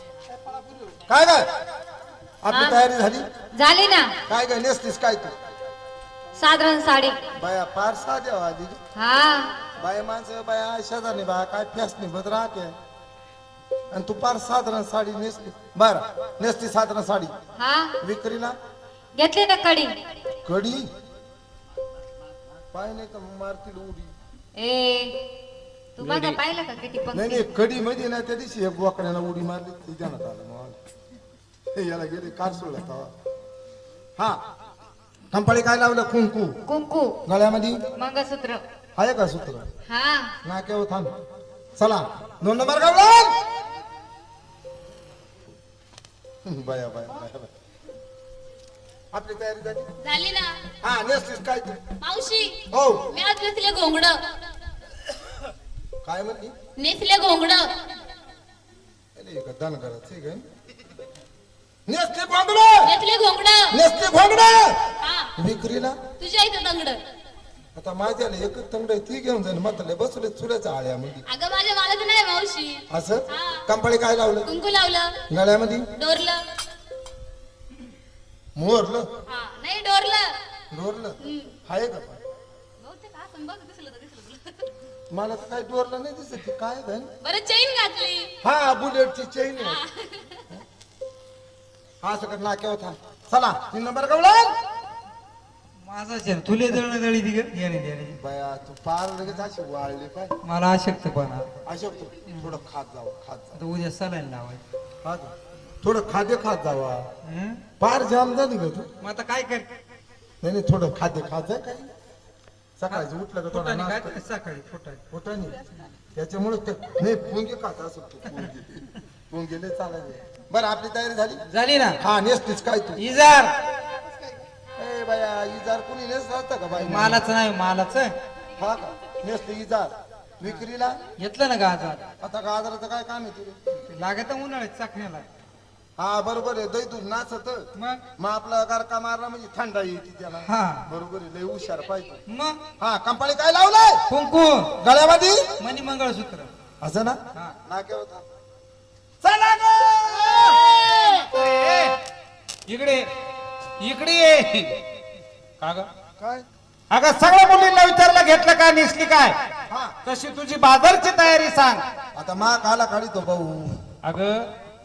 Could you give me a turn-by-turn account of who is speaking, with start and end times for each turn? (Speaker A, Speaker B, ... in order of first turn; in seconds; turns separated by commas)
Speaker A: 0.9-1.5, Speaker A: 2.4-3.2, Speaker B: 2.5-2.8, Speaker B: 3.6-4.1, Speaker A: 4.3-5.3, Speaker B: 6.4-7.2, Speaker A: 7.4-8.8, Speaker B: 8.9-9.5, Speaker A: 9.8-12.7, Speaker A: 13.9-17.3, Speaker B: 17.6-17.9, Speaker A: 18.0-18.5, Speaker B: 19.2-19.9, Speaker A: 20.4-20.9, Speaker A: 22.7-24.1, Speaker B: 24.6-25.1, Speaker B: 26.0-27.4, Speaker A: 27.1-30.8, Speaker A: 31.7-33.1, Speaker A: 35.3-36.6, Speaker B: 36.6-37.1, Speaker A: 37.3-37.8, Speaker B: 37.9-38.6, Speaker A: 39.0-39.7, Speaker B: 39.9-40.3, Speaker A: 40.4-41.1, Speaker A: 41.8-43.3, Speaker A: 46.4-47.5, Speaker A: 49.1-49.9, Speaker C: 50.0-50.5, Speaker A: 50.8-51.8, Speaker C: 52.0-52.6, Speaker A: 52.7-53.1, Speaker C: 53.1-54.2, Speaker A: 56.0-56.5, Speaker C: 56.8-57.7, Speaker A: 59.1-60.4, Speaker A: 61.9-63.0, Speaker C: 62.8-63.8, Speaker A: 63.7-64.8, Speaker C: 65.0-65.3, Speaker A: 65.3-66.0, Speaker C: 66.2-67.0, Speaker A: 67.7-71.2, Speaker C: 71.3-73.6, Speaker A: 72.9-74.5, Speaker C: 74.5-75.2, Speaker A: 75.3-75.9, Speaker C: 76.0-76.4, Speaker A: 78.5-79.1, Speaker C: 79.3-80.3, Speaker A: 80.7-82.2, Speaker C: 81.2-81.5, Speaker C: 82.8-84.7, Speaker A: 85.1-87.1, Speaker C: 87.2-88.3, Speaker A: 88.4-89.8, Speaker C: 89.6-90.5, Speaker A: 92.0-94.5, Speaker D: 95.8-98.2, Speaker A: 98.2-100.3, Speaker D: 100.4-101.5, Speaker A: 101.6-103.6, Speaker D: 103.5-104.6, Speaker A: 105.0-107.1, Speaker D: 107.2-107.6, Speaker A: 107.8-108.9, Speaker D: 109.0-109.7, Speaker A: 110.4-111.9, Speaker A: 112.8-114.2, Speaker D: 112.9-115.0, Speaker A: 115.1-115.6, Speaker A: 116.1-121.4, Speaker D: 121.5-122.0, Speaker A: 122.0-123.0, Speaker D: 123.0-123.5, Speaker A: 124.8-127.3, Speaker D: 126.8-128.2, Speaker A: 128.6-131.0, Speaker D: 131.2-132.1, Speaker A: 132.2-133.6, Speaker D: 133.8-135.2, Speaker A: 136.0-142.2, Speaker D: 137.8-138.0, Speaker D: 140.4-140.8, Speaker D: 142.3-142.6, Speaker A: 142.8-144.0, Speaker D: 144.1-144.7, Speaker A: 144.8-145.4, Speaker D: 145.6-146.5, Speaker A: 146.8-148.2, Speaker A: 149.2-150.8, Speaker E: 151.2-151.9, Speaker E: 152.7-153.0, Speaker E: 153.8-154.7, Speaker E: 155.6-155.9, Speaker A: 156.2-156.4, Speaker E: 156.9-159.3, Speaker A: 159.7-159.9, Speaker E: 160.0-161.8, Speaker A: 162.1-163.8, Speaker E: 164.0-164.5